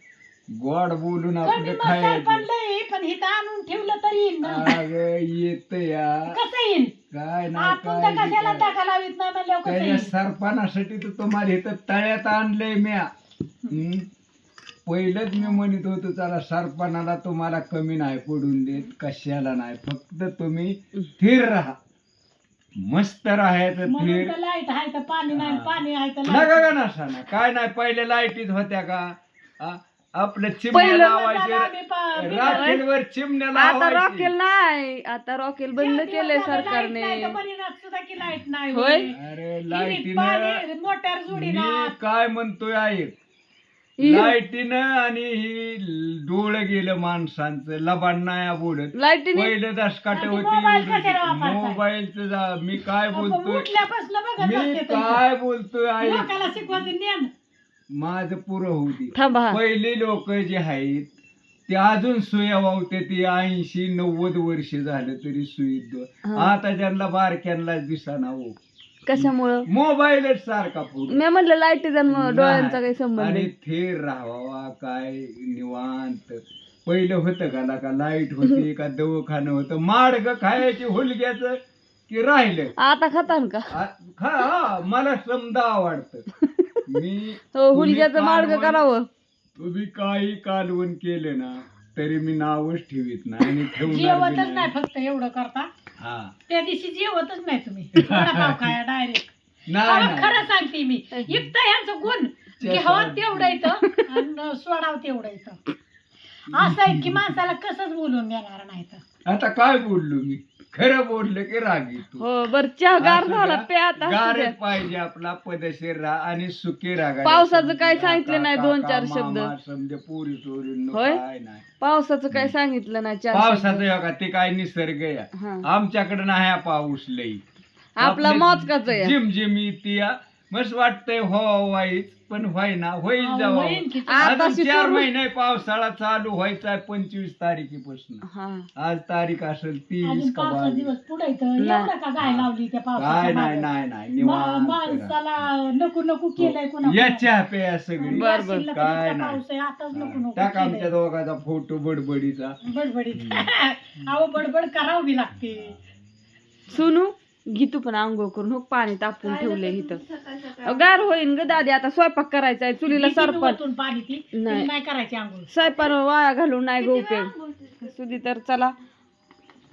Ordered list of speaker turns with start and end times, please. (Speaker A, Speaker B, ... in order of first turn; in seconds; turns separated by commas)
Speaker A: 0.5-2.5, Speaker B: 1.4-4.9, Speaker A: 4.4-6.4, Speaker B: 6.3-6.9, Speaker A: 7.1-8.7, Speaker B: 7.5-10.1, Speaker A: 9.7-13.1, Speaker A: 13.7-14.1, Speaker A: 14.9-21.8, Speaker A: 22.8-24.3, Speaker B: 23.9-26.8, Speaker A: 25.3-34.3, Speaker C: 30.7-31.2, Speaker B: 30.7-32.8, Speaker C: 32.5-32.8, Speaker C: 33.5-37.4, Speaker B: 35.8-41.9, Speaker C: 38.7-39.1, Speaker A: 39.1-40.6, Speaker A: 41.3-43.1, Speaker C: 44.0-44.3, Speaker A: 44.0-53.7, Speaker C: 48.9-49.5, Speaker B: 50.1-51.8, Speaker B: 53.1-55.2, Speaker A: 54.4-56.9, Speaker B: 56.0-57.3, Speaker A: 57.9-61.1, Speaker C: 59.1-59.6, Speaker A: 61.7-68.6, Speaker C: 66.2-66.5, Speaker C: 69.1-69.7, Speaker A: 69.2-71.2, Speaker C: 71.1-73.5, Speaker A: 72.1-82.7, Speaker C: 82.8-83.7, Speaker A: 83.7-86.3, Speaker C: 86.4-86.8, Speaker A: 86.9-88.8, Speaker C: 87.5-89.1, Speaker A: 89.6-94.7, Speaker B: 93.8-95.7, Speaker A: 96.0-96.3, Speaker B: 96.5-99.3, Speaker A: 98.0-98.7, Speaker A: 99.7-100.5, Speaker B: 99.8-105.6, Speaker A: 102.6-103.8, Speaker A: 106.5-107.4, Speaker B: 106.5-109.0, Speaker A: 109.3-112.3, Speaker C: 112.2-114.5, Speaker A: 113.0-121.7, Speaker C: 117.2-119.5, Speaker C: 120.9-121.2, Speaker C: 121.8-123.9, Speaker A: 123.3-127.4, Speaker C: 125.3-125.7, Speaker C: 128.0-129.2, Speaker A: 128.0-138.2, Speaker B: 133.2-134.4, Speaker C: 134.1-135.1, Speaker C: 138.2-138.7, Speaker A: 138.8-140.9, Speaker B: 140.0-143.7, Speaker C: 141.6-141.9, Speaker A: 142.2-145.2, Speaker B: 144.2-147.3, Speaker A: 146.4-149.4, Speaker B: 148.0-150.9, Speaker C: 148.1-148.7, Speaker A: 149.9-152.6, Speaker B: 152.6-155.8, Speaker A: 153.1-153.5, Speaker C: 156.7-160.0, Speaker C: 160.6-163.6, Speaker B: 162.9-165.5, Speaker C: 164.3-164.7, Speaker C: 165.5-168.7